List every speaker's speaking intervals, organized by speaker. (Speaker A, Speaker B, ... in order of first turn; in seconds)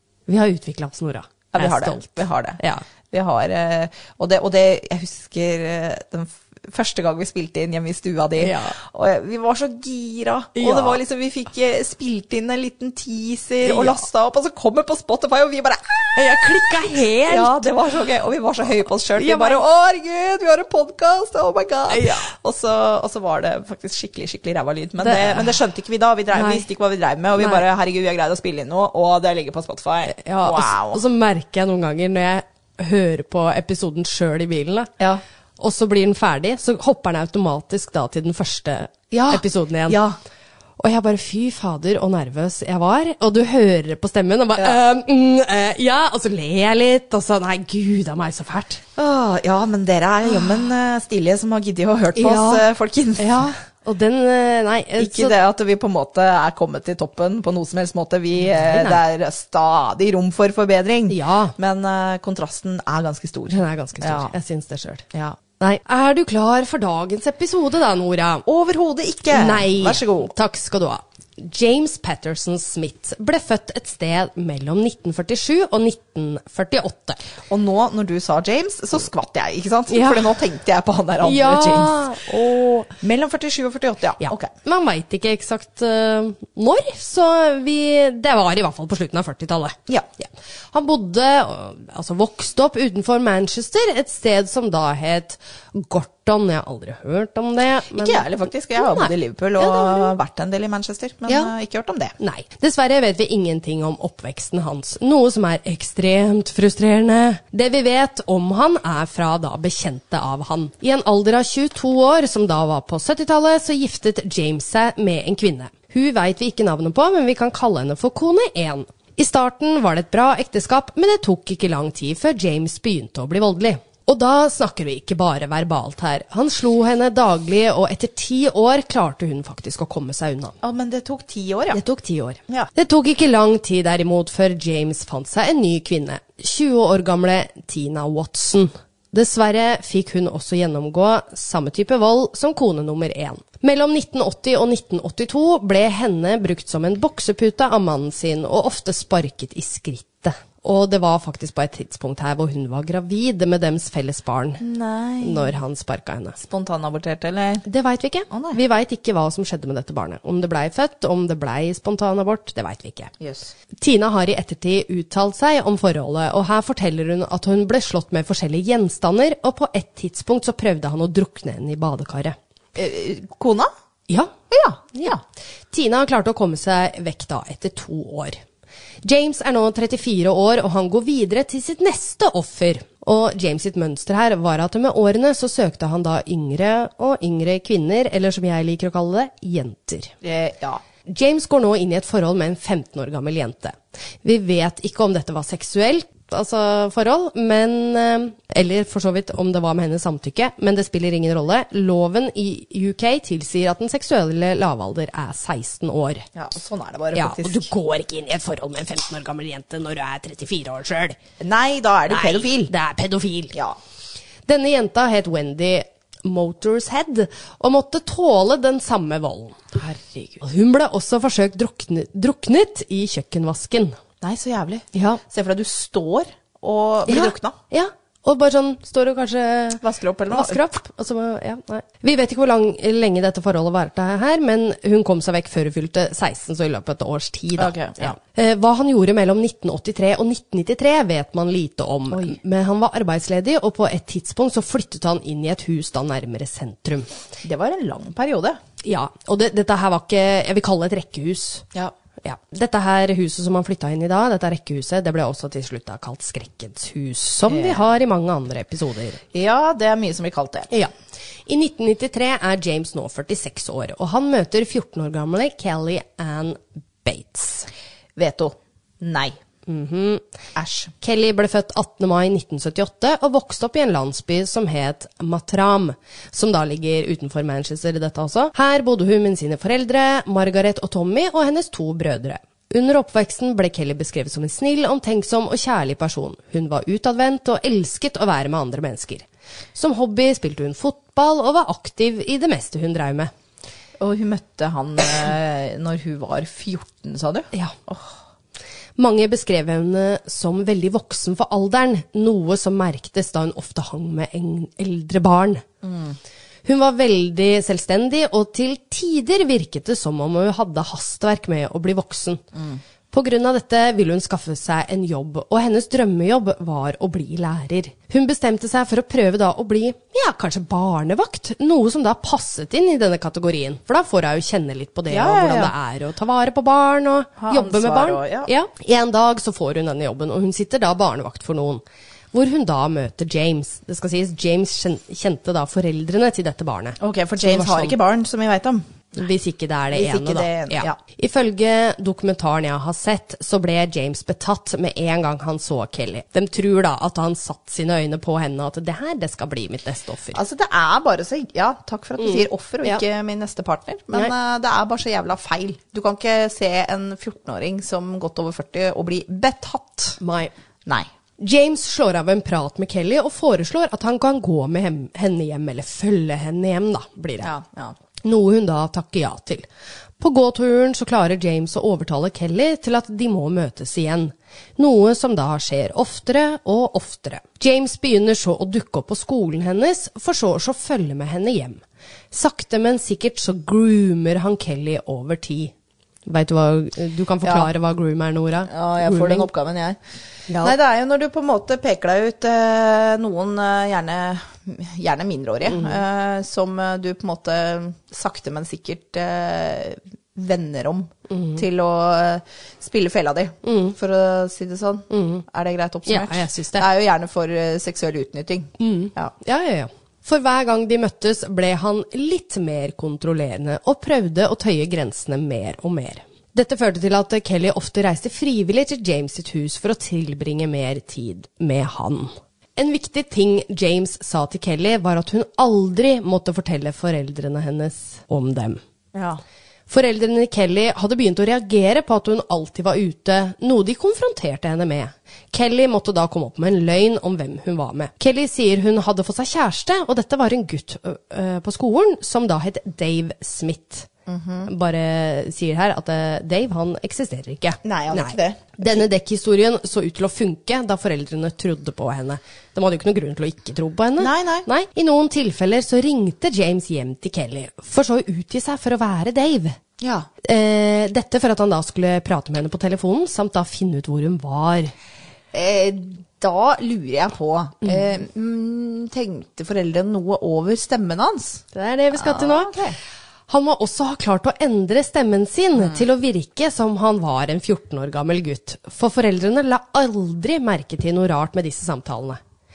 Speaker A: 0.3-2.9, 8.4-8.8, 10.6-11.0, 13.6-14.0, 16.1-17.7, 19.1-19.6, 21.9-22.3, 25.0-25.6, 26.3-26.6, 30.1-34.9, 35.6-40.0, 40.8-48.8, 52.2-52.7, 53.2-55.4, 58.5-59.0, 61.1-61.5, 63.5-65.1, 65.6-68.5, 69.3-77.2, 79.9-80.4, 81.2-82.9, 84.2-100.1, 102.2-130.6, 131.7-154.6, 155.2-156.4, 157.7-163.1, 163.8-172.4, 174.1-174.3, 175.7-178.4, 179.0-190.1, 191.1-206.3, 207.2-211.2, 212.1-213.6, 214.5-219.7, 220.4-224.0, 224.9-225.2, 227.1-247.1, 248.8-251.7, 252.2-259.2, 261.5-267.7, 269.7-270.2, 271.0-293.3, 299.0-305.6, 306.6-312.4, 313.1-331.8, 332.3-337.9, 339.2-350.4, 352.2-353.0, 360.2-360.5, 361.4-367.5, 368.2-369.7, 370.2-385.7, 386.3-389.5, 390.5-390.8, 395.7-396.0, 401.3-401.6, 403.6-404.0, 405.1-405.4, 406.1-406.9, 408.8-428.8, 429.9-444.1, 444.7-459.8, 460.4-464.9, 471.7-472.8, 473.5-482.4
Speaker B: 1.5-2.6, 3.1-31.0, 39.1-40.2, 49.0-53.5, 55.0-64.3, 65.1-65.4, 68.5-70.3, 77.5-82.2, 83.0-84.5, 97.9-102.2, 130.6-131.8, 154.6-155.5, 156.4-157.7, 158.3-158.6, 163.2-163.5, 172.8-173.7, 174.5-175.2, 190.2-190.8, 206.3-207.7, 211.4-212.7, 219.7-220.4, 224.2-227.6, 229.8-230.6, 237.6-238.2, 242.1-242.4, 247.4-248.6, 257.5-257.8, 259.3-260.7, 268.2-269.4, 270.6-270.9, 294.0-298.2, 305.8-306.2, 312.5-312.8, 325.1-325.7, 327.4-328.5, 337.0-338.9, 339.9-341.0, 350.3-360.2, 367.4-368.0, 387.4-387.7, 388.7-390.0, 390.5-409.3, 429.1-429.4, 444.3-444.7, 447.8-449.1, 454.2-454.7, 460.0-460.3, 465.5-473.0, 475.8-476.1